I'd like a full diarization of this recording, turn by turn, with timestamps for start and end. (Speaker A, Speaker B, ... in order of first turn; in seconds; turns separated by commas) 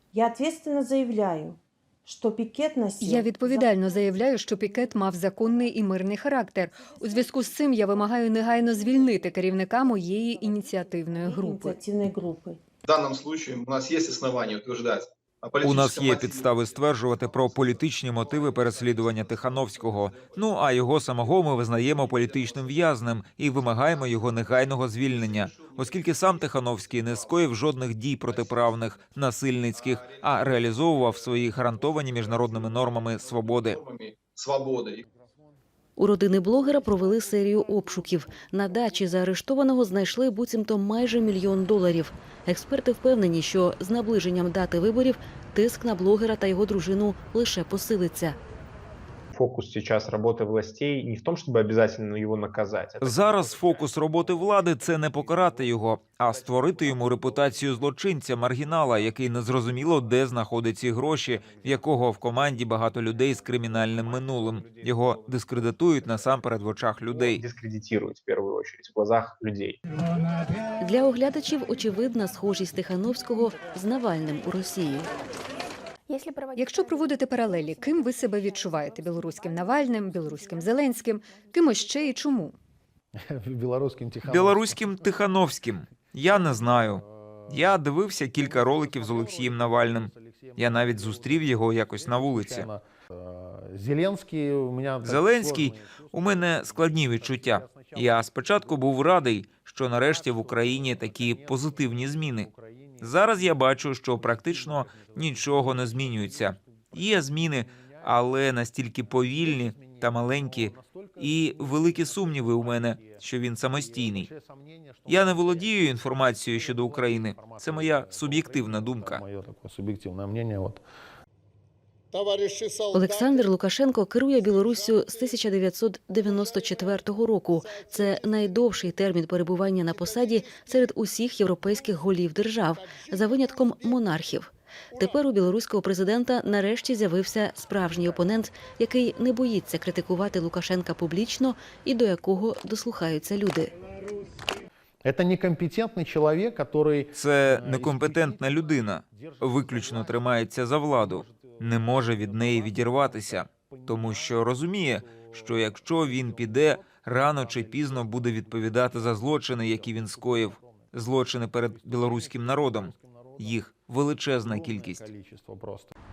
Speaker A: 0.1-3.7, Speaker B: 3.0-11.8, Speaker A: 11.3-12.6, Speaker C: 12.9-22.9, Speaker D: 15.6-33.8, Speaker C: 23.5-27.4, Speaker C: 28.2-28.8, Speaker C: 29.7-30.9, Speaker C: 32.5-35.0, Speaker E: 36.0-48.4, Speaker F: 49.3-53.5, Speaker D: 53.0-67.4, Speaker F: 63.9-64.9, Speaker F: 67.2-69.8, Speaker E: 70.8-75.1, Speaker B: 76.5-82.5, Speaker G: 83.2-85.1, Speaker D: 84.2-92.7, Speaker G: 86.8-87.8, Speaker G: 88.3-99.1, Speaker D: 95.0-102.5, Speaker G: 100.0-108.2, Speaker D: 103.0-114.3, Speaker G: 109.1-120.8, Speaker D: 115.1-119.2, Speaker E: 122.9-143.7, Speaker G: 145.0-163.6, Speaker D: 147.1-165.1, Speaker G: 164.3-165.9